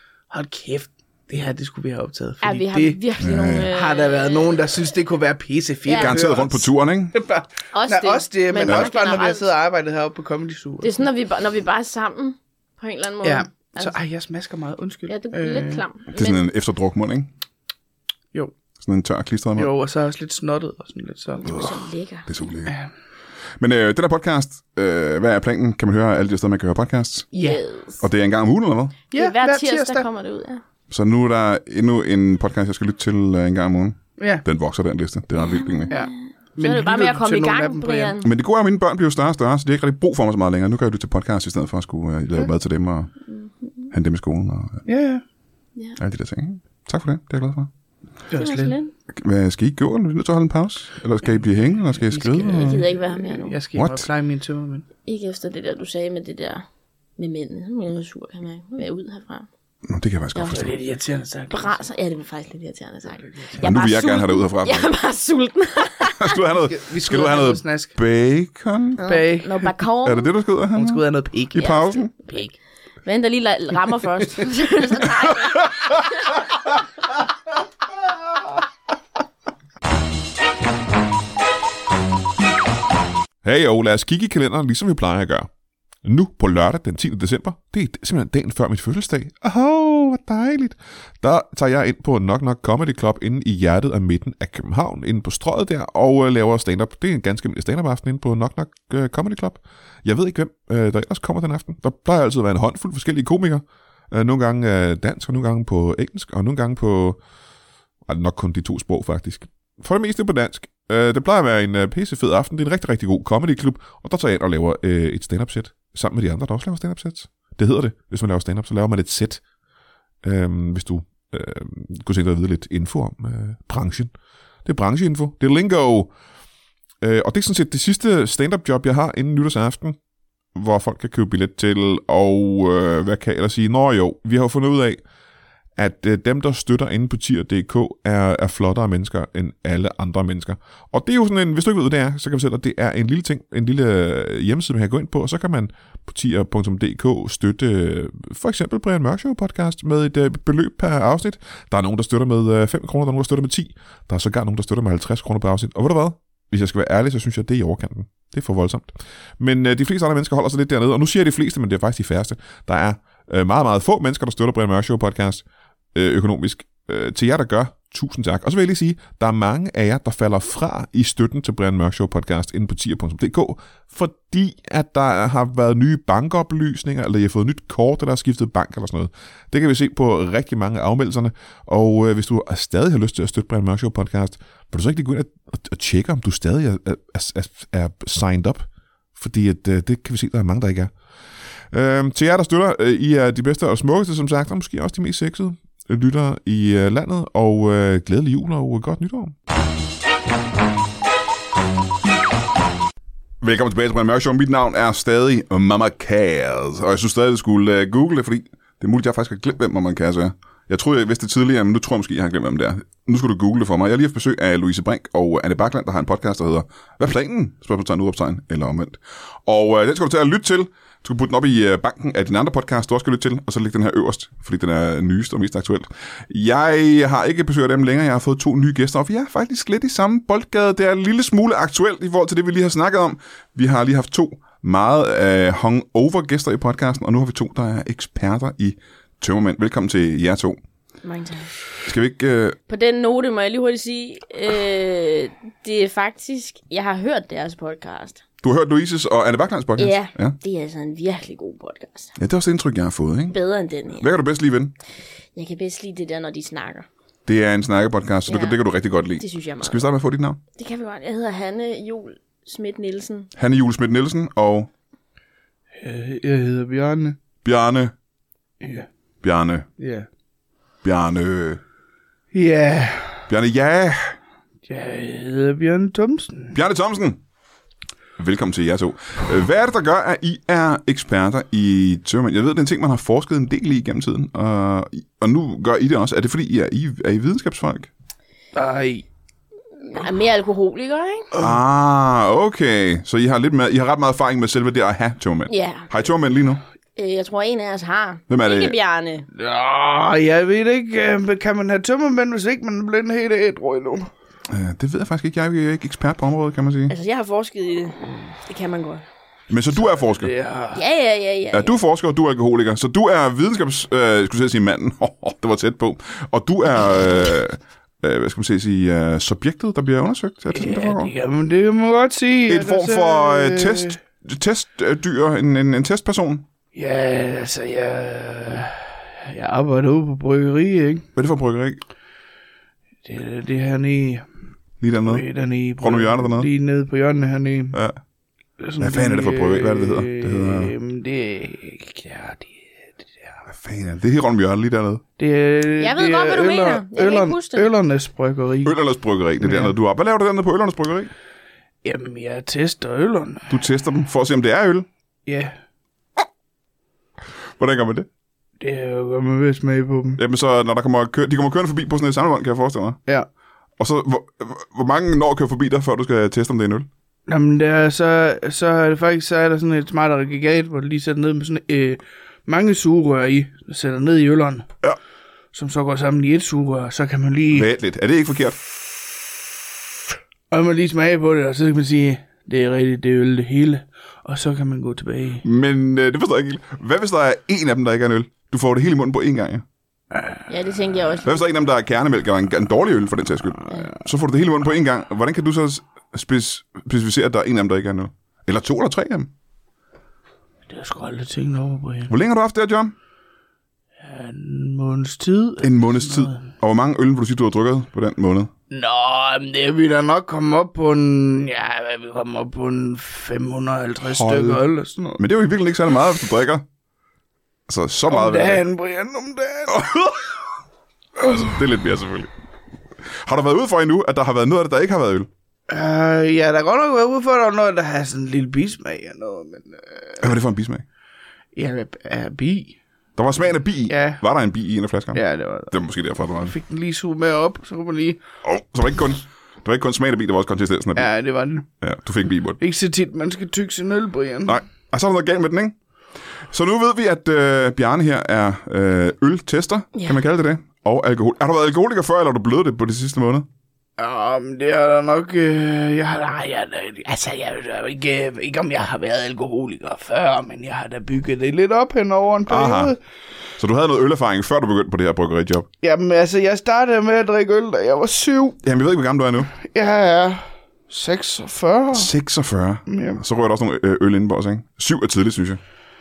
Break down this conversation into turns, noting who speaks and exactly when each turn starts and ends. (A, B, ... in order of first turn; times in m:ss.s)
0:00.3-0:03.0 A
0:02.4-0:04.6 B
0:03.2-0:03.7 C
0:03.7-0:11.0 A
0:05.9-0:06.2 B
0:06.0-0:07.2 C
0:07.7-0:09.5 B
0:10.8-0:14.0 B
0:13.2-0:15.8 A
0:15.1-0:16.4 B
0:16.1-0:17.3 C
0:18.8-0:19.7 C
0:19.6-0:21.6 A
0:21.4-0:22.3 B
0:22.3-0:22.7 C
0:23.6-0:27.3 C
0:27.3-0:27.6 A
0:27.3-0:28.0 B
0:28.0-0:29.0 C
0:29.1-0:30.1 A
0:29.1-0:30.6 B
0:30.9-0:35.9 C
0:34.2-0:34.4 A
0:35.4-0:38.3 B
0:35.9-0:38.1 A
0:38.2-0:43.1 C
0:43.3-0:43.9 B
0:43.9-0:44.8 C
0:44.9-0:45.2 A
0:46.0-0:47.7 C
0:48.3-0:48.8 A
0:48.4-0:48.9 B
0:49.1-0:52.8 C
0:51.9-0:54.9 A
0:52.6-0:53.6 B
0:53.7-0:54.1 C
0:55.0-0:56.6 B
0:57.2-0:59.5 B
0:59.8-1:00.8 C
1:00.4-1:00.7 B
1:00.4-1:01.8 A
1:01.5-1:06.4 B
1:03.4-1:03.6 A
1:03.6-1:04.9 C
1:06.2-1:09.0 C
1:06.6-1:08.0 A
1:09.0-1:10.3 B
1:09.1-1:09.7 A
1:10.0-1:11.0 C
1:10.7-1:12.6 A
1:11.5-1:12.1 C
1:11.6-1:12.0 B
1:13.0-1:16.2 B
1:23.4-1:25.5 C
1:26.0-1:47.2 C
1:48.1-1:59.4 C
2:00.2-2:04.1 C
2:04.6-2:06.1 C
2:07.0-2:10.0 C
2:10.6-2:15.0 C
2:15.8-3:10.9 C
3:11.7-3:19.4 C
3:23.4-4:00.6 C
4:01.0-4:01.5 B
4:01.8-4:02.6 C
4:02.7-4:08.2 B
4:08.4-4:10.4 C
4:09.8-4:12.2 B
4:12.2-4:13.4 C
4:13.3-4:14.1 B
4:14.0-4:14.7 C
4:15.4-4:16.9 B
4:17.3-4:20.4 C
4:18.3-4:18.6 B
4:19.2-4:19.9 B
4:20.6-4:23.3 B
4:23.4-4:24.7 C
4:25.8-4:27.2 A
4:27.4-4:27.9 C
4:28.6-4:28.9 A
4:29.2-4:29.7 C
4:29.8-4:30.1 A
4:30.8-4:31.6 C
4:32.3-4:33.3 A
4:33.3-4:34.2 C
4:34.7-4:36.6 A
4:36.5-4:37.2 C
4:38.2-4:47.9 C
4:48.6-4:49.0 A
4:49.8-4:51.3 B
4:51.4-4:56.6 C
4:55.5-4:55.9 B
4:57.0-4:59.3 B
4:58.3-4:58.8 C
4:59.4-5:04.1 A
5:04.5-5:06.9 C
5:06.9-5:09.0 B
5:09.5-5:10.3 C
5:09.9-5:10.8 A
5:10.7-5:11.8 B
5:11.5-5:21.1 C
5:20.5-5:24.0 A
5:22.5-5:26.5 C
5:26.7-5:31.0 A
5:31.2-5:31.8 C
5:33.0-5:34.2 A
5:34.8-5:35.3 C
5:35.0-5:37.8 A
5:35.8-5:36.5 C
5:37.7-5:38.0 C
5:38.6-5:43.3 A
5:38.8-5:40.7 C
5:43.5-5:45.0 C
5:45.2-5:48.8 A
5:45.8-5:47.7 B
5:48.6-5:51.1 C
5:49.4-5:49.7 A
5:51.8-5:53.5 A
5:53.5-5:54.9 C
5:55.3-5:55.6 A
5:57.6-5:58.1 C
5:58.6-6:00.2 A
6:00.2-6:03.0 C
6:03.8-6:06.9 C
6:07.3-6:14.7 A
6:15.5-6:17.7 A
6:17.5-6:18.6 C
6:20.5-6:25.4 A
6:25.4-6:29.6 C
6:30.5-6:31.4 B
6:31.2-6:39.3 C
6:40.7-6:42.1 A
6:42.1-6:42.9 C
6:44.0-6:46.5 A
6:45.6-6:48.5 C
6:48.7-6:55.2 A
6:54.0-6:54.6 C
6:55.2-6:56.6 C
6:57.7-6:58.6 C
6:58.1-6:59.9 A
6:59.7-7:00.4 C
7:01.2-7:02.3 C
7:03.0-7:05.3 C
7:05.7-7:10.3 A
7:10.2-7:10.8 C
7:11.6-7:12.8 A
7:13.2-7:16.6 C
7:13.9-7:14.2 A
7:15.1-7:15.8 A
7:16.3-7:18.2 A
7:18.4-7:21.1 C
7:21.0-7:21.7 A
7:21.8-7:22.6 C
7:22.6-7:24.6 A
7:24.5-7:25.8 C
7:26.5-7:33.5 C
7:34.0-7:43.0 A
7:42.5-7:43.0 C
7:43.6-7:45.7 C
7:45.8-7:48.6 A
7:48.6-7:49.5 C
7:49.6-7:52.1 A
7:51.9-7:55.6 C
7:52.9-7:53.2 A